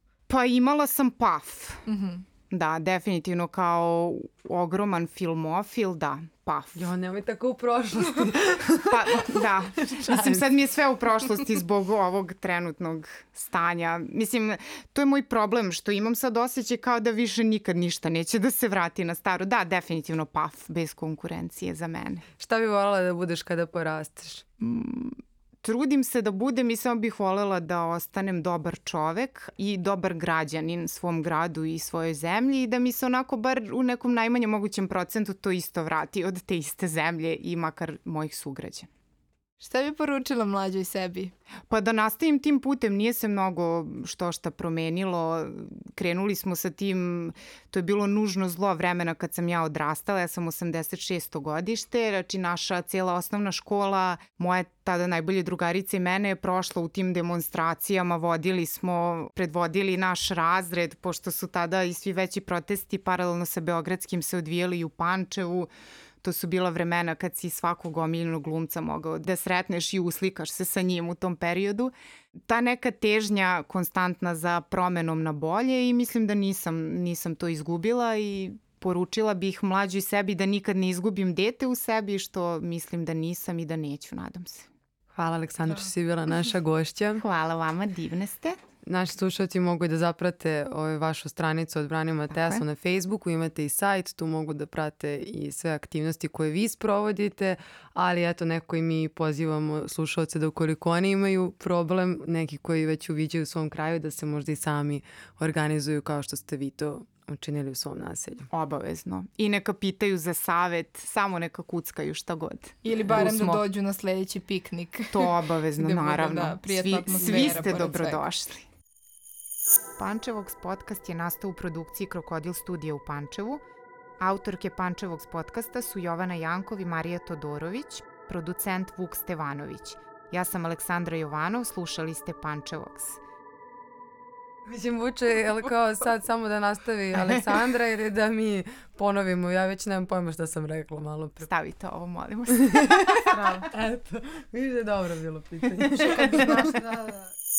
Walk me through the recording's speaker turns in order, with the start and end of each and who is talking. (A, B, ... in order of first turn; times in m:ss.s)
0:00.3-0:01.8 A
0:01.9-0:02.2 B
0:02.5-0:06.9 A
0:06.8-0:10.4 C
0:08.8-0:22.2 A
0:22.4-0:24.4 C
0:24.6-0:38.9 A
0:39.6-0:41.3 B
0:41.7-1:05.7 A
1:06.2-1:11.9 A
1:12.5-1:24.7 A
1:25.1-1:27.2 C
1:27.2-1:28.6 A
1:28.8-1:48.5 C
1:32.3-1:32.6 A
1:48.5-1:53.6 A
1:52.8-1:58.2 B
1:55.1-1:58.7 A
2:00.0-2:03.6 A
2:04.2-2:13.2 A
2:14.7-2:21.5 C
2:21.5-2:23.7 A
2:22.5-2:26.8 C
2:26.0-2:26.7 A
2:26.3-2:26.7 B